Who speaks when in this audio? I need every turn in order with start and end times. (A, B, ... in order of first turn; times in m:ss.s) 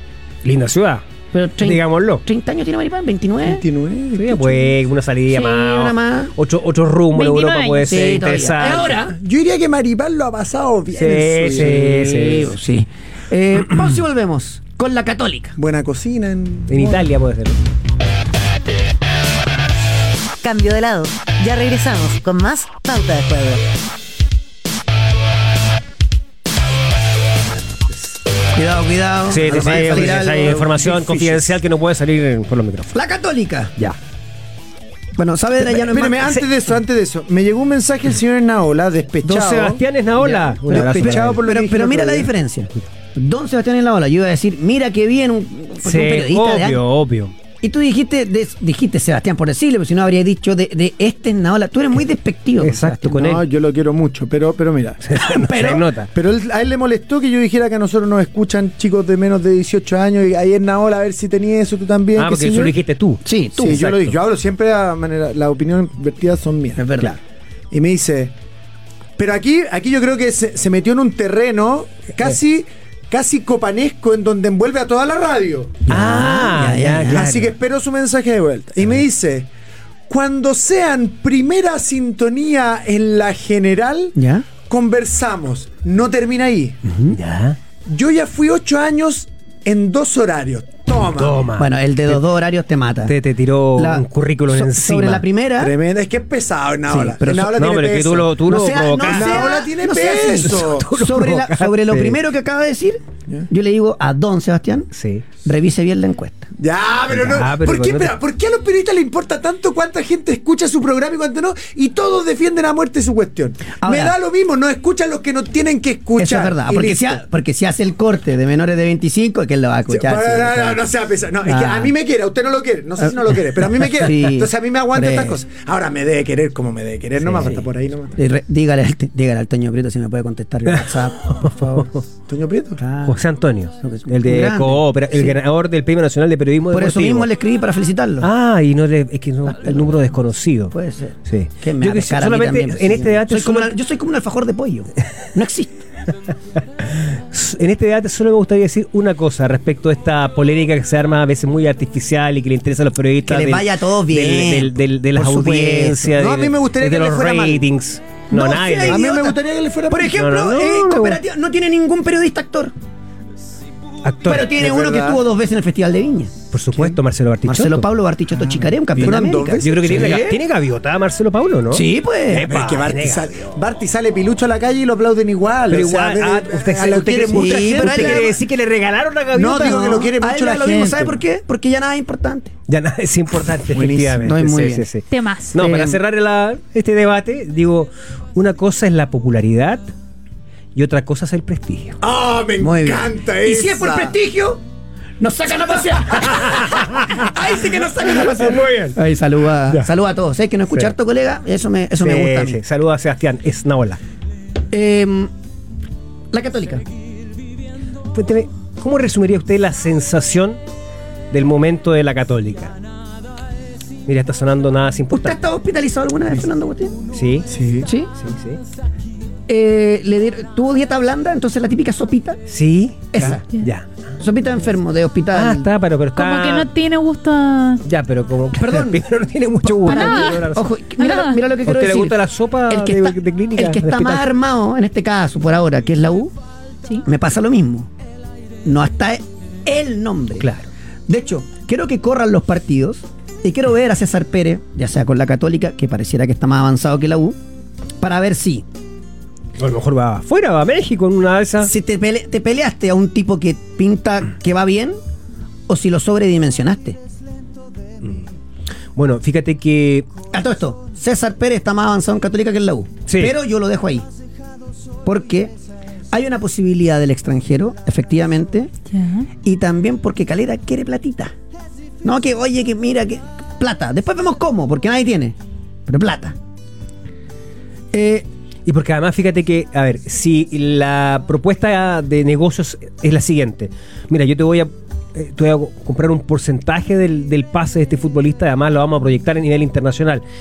0:00.4-0:01.1 A
0:01.3-0:03.6 B
0:01.6-0:02.2 A
0:03.4-0:04.8 C
0:04.1-0:09.0 A
0:05.3-0:06.3 B
0:07.1-0:08.0 D
0:07.9-0:09.2 B
0:09.1-0:12.1 C
0:10.9-0:12.5 A
0:11.6-0:15.6 B
0:15.6-0:17.1 C
0:16.7-0:17.6 A
0:20.4-0:23.6 E
0:28.5-0:31.4 B
0:29.3-0:32.9 A
0:29.4-0:31.3 C
0:32.9-0:33.7 B
0:35.2-0:36.5 B
0:35.6-0:42.3 C
0:39.2-0:41.4 A
0:40.2-0:46.8 B
0:45.8-0:47.3 A
0:47.6-0:53.3 B
0:52.6-0:53.4 A
0:53.1-0:55.1 C
0:55.0-0:56.1 A
0:55.1-0:55.8 B
0:56.1-1:02.7 C
1:02.1-1:04.1 A
1:03.2-1:03.9 B
1:03.5-1:06.8 C
1:06.8-1:07.2 B
1:07.7-1:08.3 C
1:09.2-1:15.8 C
1:15.8-1:17.3 B
1:15.9-1:17.5 A
1:17.0-1:19.5 C
1:20.1-1:26.8 C
1:24.2-1:24.5 B
1:26.9-1:27.1 B
1:27.1-1:27.6 A
1:27.8-1:31.4 C
1:31.1-1:32.2 A
1:31.6-1:33.1 B
1:33.0-1:35.2 A
1:33.8-1:35.7 B
1:35.6-1:38.4 C
1:36.9-1:37.5 B
1:37.2-1:39.6 A
1:38.5-1:44.9 B
1:39.0-1:40.8 C
1:40.3-1:42.2 A
1:44.9-1:45.2 A
1:45.4-1:46.5 B
1:46.6-1:57.2 C
1:47.1-1:48.1 A
1:53.8-1:54.2 B
1:56.2-2:00.9 B
1:59.9-2:08.2 C
2:01.4-2:01.9 B
2:03.8-2:05.4 B
2:07.2-2:11.9 B
2:10.8-2:12.0 A
2:12.3-2:12.8 C
2:12.8-2:13.2 B
2:13.0-2:17.3 A
2:13.8-2:15.4 B
2:16.7-2:18.3 B
2:18.2-2:20.7 A
2:19.5-2:19.9 B
2:20.7-2:25.8 B
2:21.2-2:23.8 A
2:26.8-2:39.0 A
2:33.2-2:36.1 B
2:36.1-2:37.6 C
2:38.3-2:42.7 B
2:38.8-2:40.1 C
2:40.0-2:41.2 A
2:44.0-2:44.5 A
2:44.2-2:46.3 B
2:44.5-2:45.2 C
2:46.5-2:47.9 A
2:47.4-2:50.4 B
2:48.9-2:50.4 C
2:49.6-2:53.4 A
2:51.7-2:52.5 B
2:52.3-2:58.3 C
2:55.7-3:00.0 A
2:57.1-2:58.4 B
2:59.3-3:01.2 C
2:59.5-3:02.5 B
3:02.7-3:09.9 A
3:03.6-3:04.3 C
3:04.2-3:04.9 B
3:05.1-3:05.6 D
3:05.6-3:06.0 B
3:10.7-3:12.0 A
3:12.0-3:14.1 C
3:12.6-3:14.6 B
3:15.2-3:22.6 B
3:16.2-3:17.3 A
3:17.6-3:18.3 C
3:18.2-3:19.0 A
3:22.0-3:24.0 A
3:24.7-3:25.3 B
3:26.3-3:26.9 B
3:28.1-3:30.6 A
3:31.3-3:32.7 A
3:34.0-3:35.4 A
3:35.1-3:37.0 B
3:37.1-3:37.5 A
3:37.5-3:37.9 C
3:37.8-3:38.1 B
3:38.2-3:38.6 A
3:39.5-3:42.4 B
3:42.5-3:43.9 A
3:43.1-3:43.4 B
3:44.2-3:45.7 B
3:45.3-3:46.7 A
3:46.2-3:47.8 D
3:47.8-3:50.7 A
3:48.5-3:49.0 B
3:49.6-3:56.3 B
3:49.9-3:50.4 D
3:51.0-3:51.4 D
3:51.6-3:54.2 A
3:57.0-3:57.9 B
3:58.6-4:00.5 B
4:00.4-4:00.7 A
4:01.1-4:07.4 B
4:08.0-4:08.6 B
4:09.6-4:11.7 A
4:11.6-4:15.0 B
4:15.7-4:17.0 B
4:18.9-4:20.1 A
4:20.3-4:24.1 B
4:23.1-4:23.3 A
4:25.0-4:25.5 B
4:26.1-4:28.7 B
4:28.9-4:29.3 D
4:29.4-4:31.3 B
4:32.0-4:36.4 B
4:37.9-4:38.2 B
4:38.6-4:50.2 A